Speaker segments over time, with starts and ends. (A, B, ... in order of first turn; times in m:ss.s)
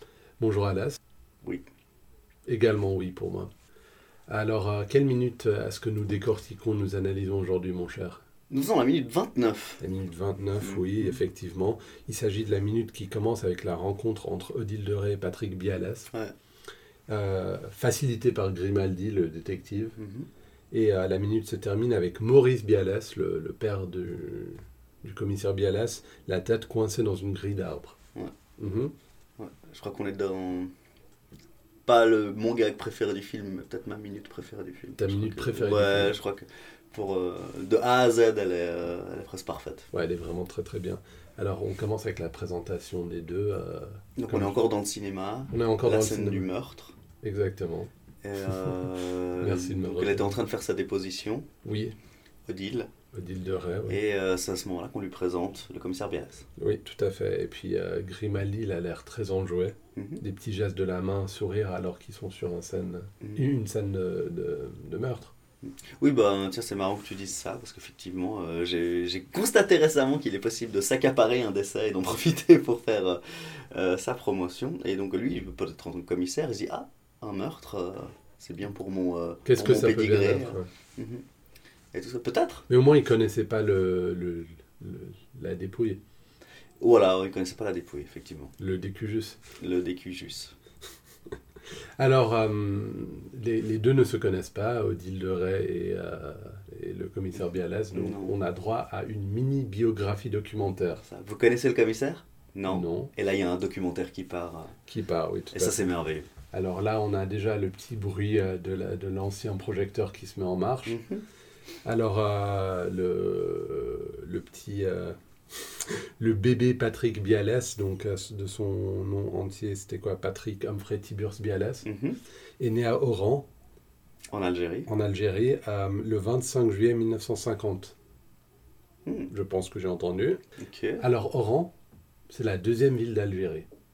0:00.4-0:01.0 A
0:02.4-0:03.5 A
0:04.3-0:08.2 A
0:08.5-0:09.8 B
0:09.8-0:16.1 A
0:10.6-0:11.2 B
0:17.1-0:20.0 A
0:20.0-0:20.3 B
0:20.7-0:28.0 A
0:28.6-0:28.9 A
0:29.4-0:30.7 B
0:31.8-0:39.9 B
0:35.0-0:36.2 A
0:39.9-0:44.7 A
0:44.2-0:46.9 B
0:45.5-0:46.5 A
0:47.2-0:47.9 A
0:48.2-0:51.5 B
0:49.4-0:50.3 A
0:51.6-0:52.0 A
0:52.5-0:52.9 B
0:53.1-0:54.0 A
0:53.9-0:56.5 B
0:56.6-1:05.3 A
1:00.0-1:00.2 B
1:05.6-1:21.2 B
1:19.4-1:20.7 A
1:21.9-1:22.7 B
1:22.7-1:26.0 A
1:26.8-1:28.5 B
1:28.6-1:29.4 A
1:29.6-1:30.5 B
1:32.0-1:41.0 A
1:37.9-1:38.4 B
1:41.0-1:44.7 B
1:42.7-1:43.1 A
1:44.9-1:45.9 A
1:45.5-1:46.3 B
1:46.5-1:51.0 A
1:50.8-1:51.2 B
1:51.8-2:01.8 A
2:01.8-2:02.2 B
2:02.6-2:03.5 A
2:04.3-2:04.9 B
2:04.8-2:07.9 A
2:09.0-2:09.3 B
2:09.3-2:10.4 A
2:10.6-2:11.0 B
2:11.0-2:11.7 A
2:12.3-2:13.6 A